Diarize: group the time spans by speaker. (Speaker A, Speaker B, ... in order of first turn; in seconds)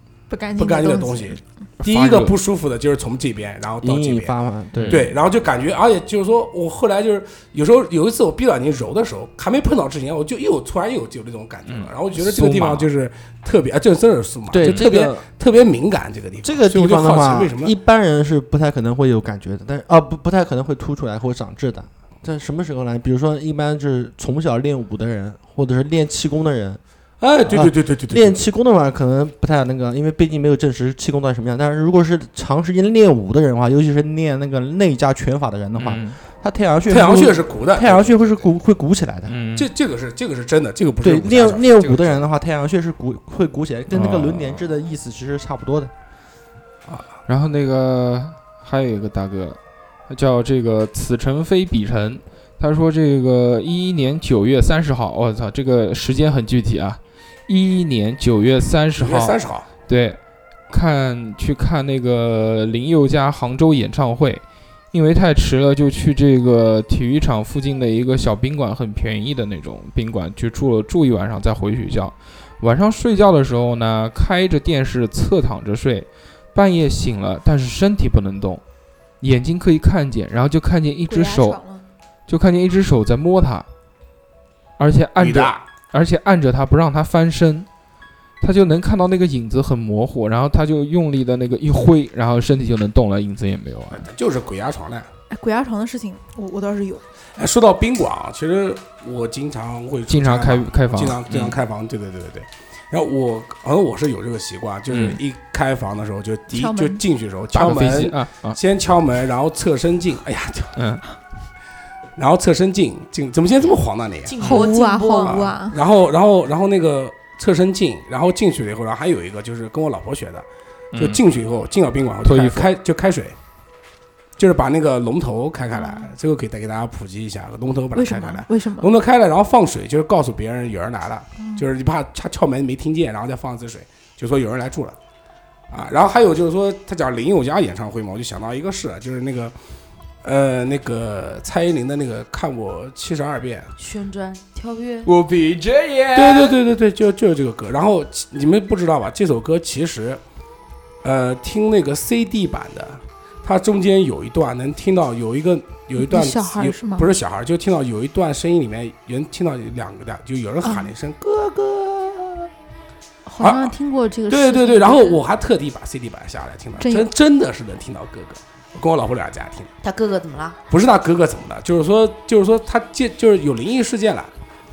Speaker A: 0.3-1.4, 81.1-81.8, 95.3-97.0, 106.5-107.0, 114.4-115.8, 125.7-126.1, 127.9-128.9, 131.4-131.7, 156.0-157.1, 160.6-160.9, 163.3-165.2, 166.8-167.1
Speaker B: 0.6-4.3, 4.9-17.7, 27.2-28.4, 36.9-38.4, 39.6-42.0, 59.0-59.7, 85.2-85.6, 93.9-95.1, 97.3-110.8, 112.2-114.5, 115.2-123.4, 124.4-135.0, 135.7-139.6, 140.2-143.7, 146.1-150.2, 151.0-162.5, 163.4-163.7, 164.3-169.7, 170.7-174.3
Speaker C: 1.8-2.4, 4.7-5.1, 11.7-12.9, 14.6-14.9, 35.8-36.2, 39.3-39.7, 41.8-42.0, 43.9-44.7, 47.3-49.6, 50.1-60.2, 60.7-78.6, 79.2-81.6, 82.3-83.7, 84.8-87.7, 88.4-94.1, 100.1-101.6, 104.9-105.2, 107.5-108.6, 110.8-111.0, 120.9-121.2, 122.2-122.7, 145.1-146.6
Speaker D: 3.8-5.2, 14.5-15.3, 16.4-26.8, 27.4-39.4, 41.0-45.9
Speaker E: 114.3-115.4, 143.8-145.1, 169.8-170.6